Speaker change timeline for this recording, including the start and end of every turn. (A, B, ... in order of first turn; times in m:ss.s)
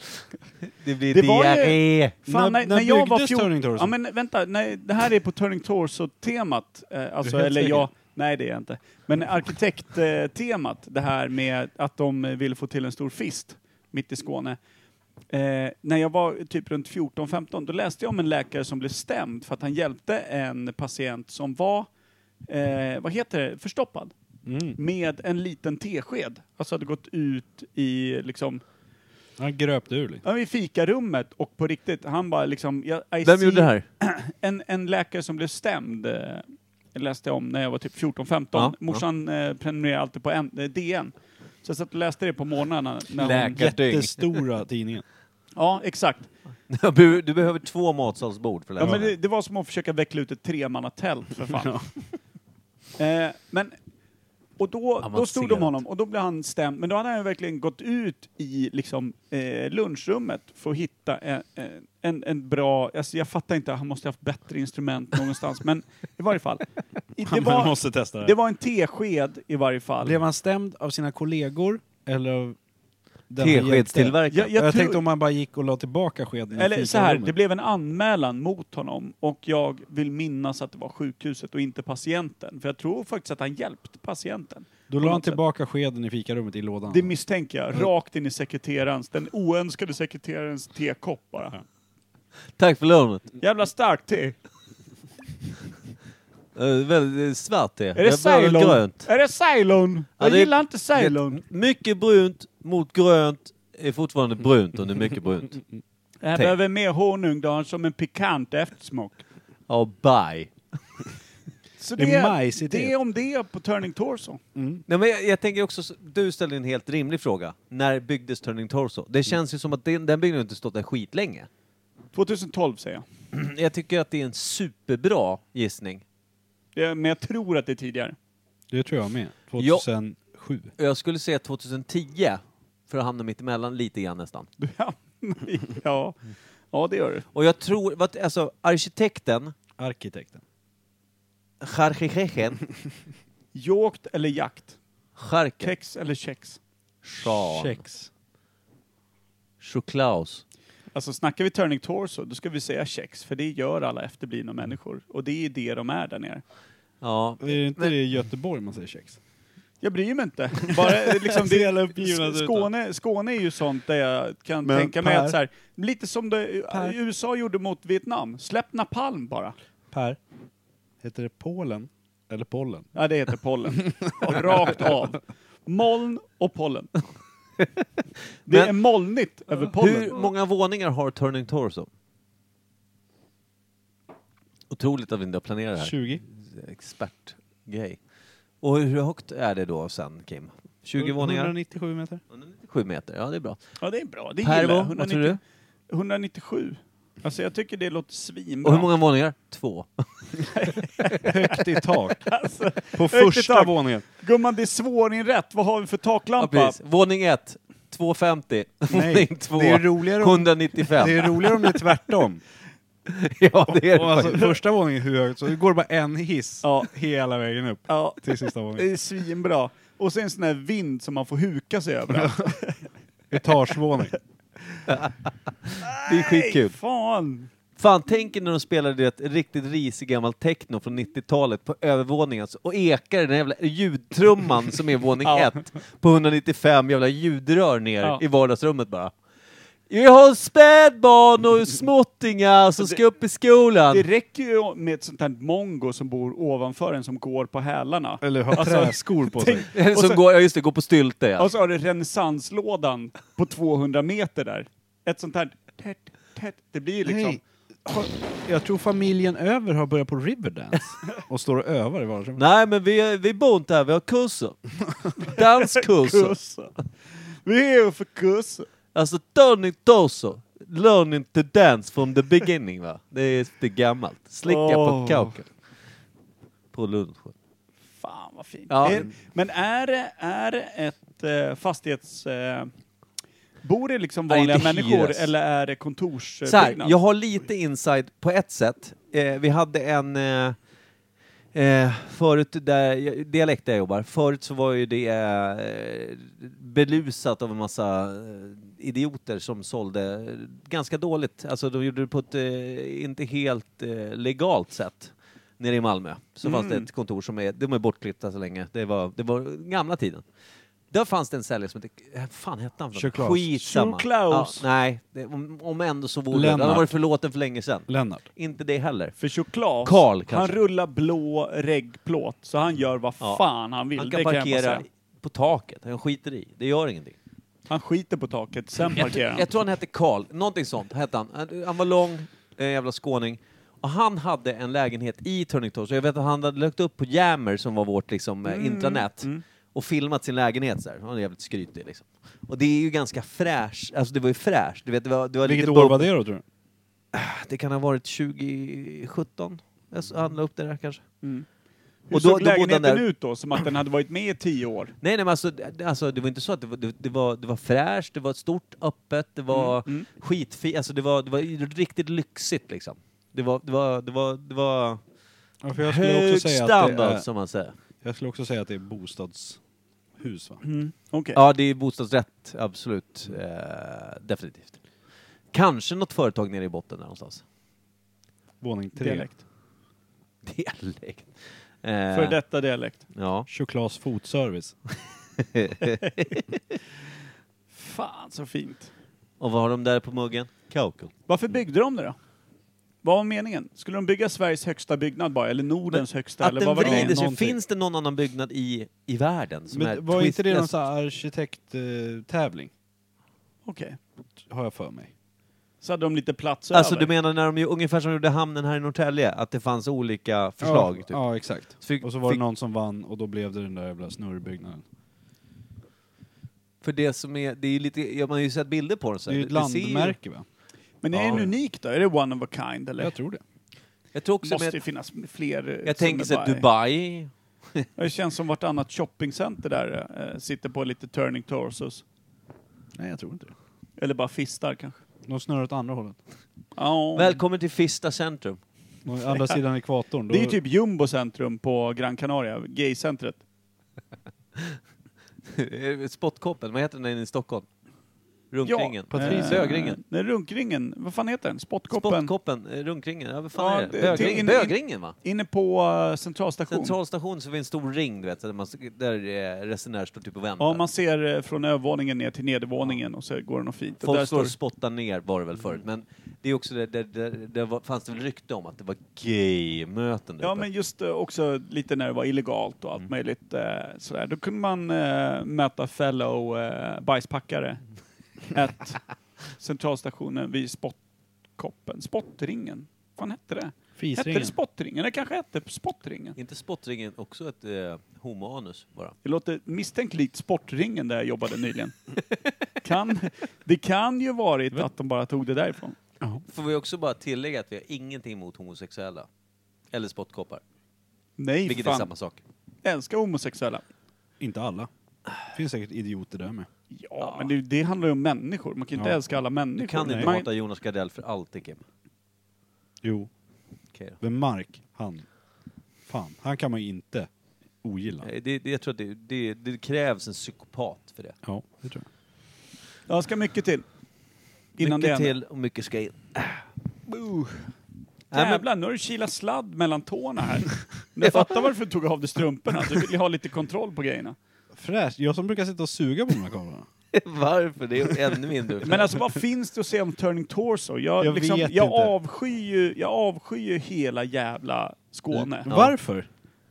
0:00.7-0:02.1 A
0:01.1-0:14.6 B
0:02.3-0:03.9 C
0:07.2-0:07.9 C
0:15.3-0:21.9 B
0:22.5-0:24.1 B
0:24.4-0:24.8 C
0:24.7-0:28.6 B
0:29.4-0:30.2 C
0:30.2-0:43.6 B
0:33.2-0:33.8 A
0:38.5-0:39.0 A
0:43.2-0:44.3 A
0:43.3-0:45.0 C
0:45.6-0:46.3 B
0:46.7-0:49.1 A
0:48.8-0:51.8 B
0:48.8-0:49.1 C
0:51.5-0:51.9 C
0:53.0-0:53.7 B
0:54.6-1:10.2 B
0:55.0-0:55.8 A
1:07.3-1:08.3 C
1:10.0-1:12.6 C
1:13.3-1:17.3 C
1:13.4-1:14.5 A
1:14.3-1:15.0 B
1:16.5-1:25.4 B
1:24.9-1:27.1 C
1:26.9-1:31.6 B
1:32.6-1:33.3 A
1:33.4-1:34.4 B
1:36.6-1:39.1 A
1:38.0-1:41.4 B
1:40.2-1:45.6 A
1:46.2-1:49.2 B
1:49.7-1:50.5 A
1:51.8-1:54.4 B
1:52.0-1:52.9 C
1:54.6-1:54.8 C
1:54.9-2:01.5 A
2:02.1-2:03.0 B
2:03.3-2:06.0 A
2:06.7-2:08.2 B
2:08.7-2:10.7 C
2:09.6-2:09.9 A
2:10.8-2:14.5 A
2:14.6-2:16.2 B
2:16.7-2:17.3 B
2:17.3-2:19.6 A
2:19.8-2:20.4 C
2:21.6-2:22.6 A
2:23.5-2:24.8 B
2:25.2-2:25.7 A
2:25.6-2:26.6 B
2:27.0-2:27.8 A
2:27.2-2:28.1 C
2:29.6-2:30.4 A
2:30.9-2:36.4 B
2:37.0-2:37.9 A
2:37.4-2:39.2 C
2:39.8-2:49.6 B
2:40.7-2:42.7 C
2:44.6-2:45.4 C
2:46.7-2:47.0 C
2:49.9-2:50.2 C
2:51.0-2:52.9 C
2:53.0-2:57.0 B
2:53.9-2:54.8 C
2:58.5-2:58.7 A
2:58.5-3:00.2 B
2:59.7-3:01.9 A
3:04.7-3:08.0 A
3:05.8-3:06.2 C
3:08.6-3:11.5 A
3:11.0-3:12.2 C
3:12.3-3:13.6 A
3:13.8-3:15.4 B
3:14.4-3:15.4 A
3:15.9-3:18.9 B
3:18.6-3:20.0 A
3:20.5-3:21.6 B
3:21.2-3:22.3 C
3:22.2-3:26.8 B
3:22.9-3:24.0 C
3:26.4-3:31.9 A
3:28.9-3:32.4 C
3:33.1-3:34.6 A
3:33.7-3:38.9 C
3:36.6-3:36.9 B
3:37.9-3:42.9 B
3:42.1-3:42.6 C
3:43.3-3:44.2 C
3:44.9-3:46.8 A
3:45.8-3:47.5 B
3:47.8-3:59.1 A
3:55.2-3:55.5 B
3:59.9-4:04.0 A
4:03.9-4:10.2 B
4:08.2-4:09.7 C
4:09.7-4:11.5 A
4:11.4-4:17.4 B
4:17.0-4:22.4 C
4:22.4-4:26.4 A
4:25.3-4:28.7 B
4:28.9-4:35.5 A
4:34.4-4:35.4 B
4:36.7-4:37.3 A
4:38.0-4:42.7 B
4:38.7-4:39.1 A
4:43.6-4:46.9 B
4:44.3-4:45.3 A
4:46.4-4:50.6 A
4:51.5-5:10.2 A
5:06.4-5:06.9 B
5:10.9-5:19.1 A
5:13.0-5:13.6 C
5:13.6-5:14.6 B
5:16.3-5:16.9 C
5:17.9-5:18.2 C
5:19.2-5:24.8 B
5:19.8-5:20.6 A
5:24.0-5:27.2 A
5:27.7-5:29.5 B
5:29.0-5:46.1 A
5:38.4-5:39.4 B
5:45.4-5:46.4 C
5:47.1-5:51.0 A
5:51.2-5:51.5 B
5:52.0-5:55.0 B
5:52.1-5:53.0 A
5:55.0-6:05.0 A
5:59.5-6:00.1 B
6:05.6-6:07.3 C
6:05.8-6:07.7 A
6:08.0-6:09.6 C
6:10.2-6:10.6 C
6:10.6-6:11.4 B
6:11.3-6:14.8 A
6:15.5-6:17.4 A
6:18.6-6:19.3 C
6:19.0-6:19.4 B
6:20.4-6:22.4 A
6:22.1-6:23.0 B
6:23.1-6:23.5 A
6:23.5-6:24.7 C
6:25.4-6:26.4 A
6:27.7-6:28.9 B
6:29.4-6:31.1 A
6:31.3-6:32.2 B
6:33.0-6:37.2 B
6:35.9-6:40.7 A
6:36.8-6:37.6 C
6:39.7-6:42.7 C
6:43.7-6:44.0 B
6:44.4-6:45.1 C
6:45.8-6:47.1 B
6:46.7-6:52.4 A
6:50.6-6:54.8 C
6:56.8-7:00.2 A
6:59.3-7:00.4 C
7:01.0-7:03.2 B
7:01.1-7:01.4 A
7:01.2-7:01.5 C
7:03.0-7:03.4 C
7:04.1-7:04.8 A
7:04.4-7:06.6 B
7:05.8-7:07.9 A
7:08.0-7:12.0 B
7:13.0-7:13.5 C
7:14.0-7:15.0 B
7:15.3-7:16.2 C
7:16.8-7:17.4 B
7:17.1-7:18.6 A
7:19.0-7:20.6 C
7:20.3-7:23.4 B
7:25.5-7:27.7 A
7:28.5-7:30.0 A
7:28.6-7:32.3 B
7:29.1-7:29.7 C
7:31.9-7:35.1 A
7:33.6-7:37.0 B
7:34.1-7:34.4 C
7:36.7-7:40.8 A
7:40.6-7:44.5 B
7:44.0-7:50.7 A
7:50.4-7:57.8 B
7:58.5-8:01.0 B
8:01.6-8:06.4 B
8:04.0-8:04.5 C
8:06.4-8:09.1 A
8:09.2-8:12.1 B
8:12.8-8:16.0 B
8:16.5-8:19.3 A
8:19.9-8:20.6 A
8:21.4-8:22.1 B
8:21.6-8:22.4 A
8:22.8-8:23.8 B
8:24.4-8:24.9 C
8:25.4-8:26.7 C
8:26.9-8:30.5 B
8:27.2-8:27.5 A
8:29.8-8:31.8 A
8:30.0-8:30.3 C
8:33.0-8:33.3 C
8:33.9-8:34.2 A
8:34.2-8:35.3 C
8:36.1-8:37.3 C
8:37.8-8:38.3 C
8:38.2-8:41.4 A
8:41.4-8:42.0 C
8:43.1-8:43.9 B
8:44.8-8:45.3 B
8:44.8-8:46.7 A
8:47.1-8:47.5 B
8:48.3-8:48.6 A
8:48.3-8:54.4 B
8:51.2-8:51.6 A
8:54.7-8:56.9 C
8:57.1-8:59.1 A
8:58.8-9:05.7 B
9:01.2-9:02.1 C
9:05.3-9:06.3 C
9:05.7-9:05.9 A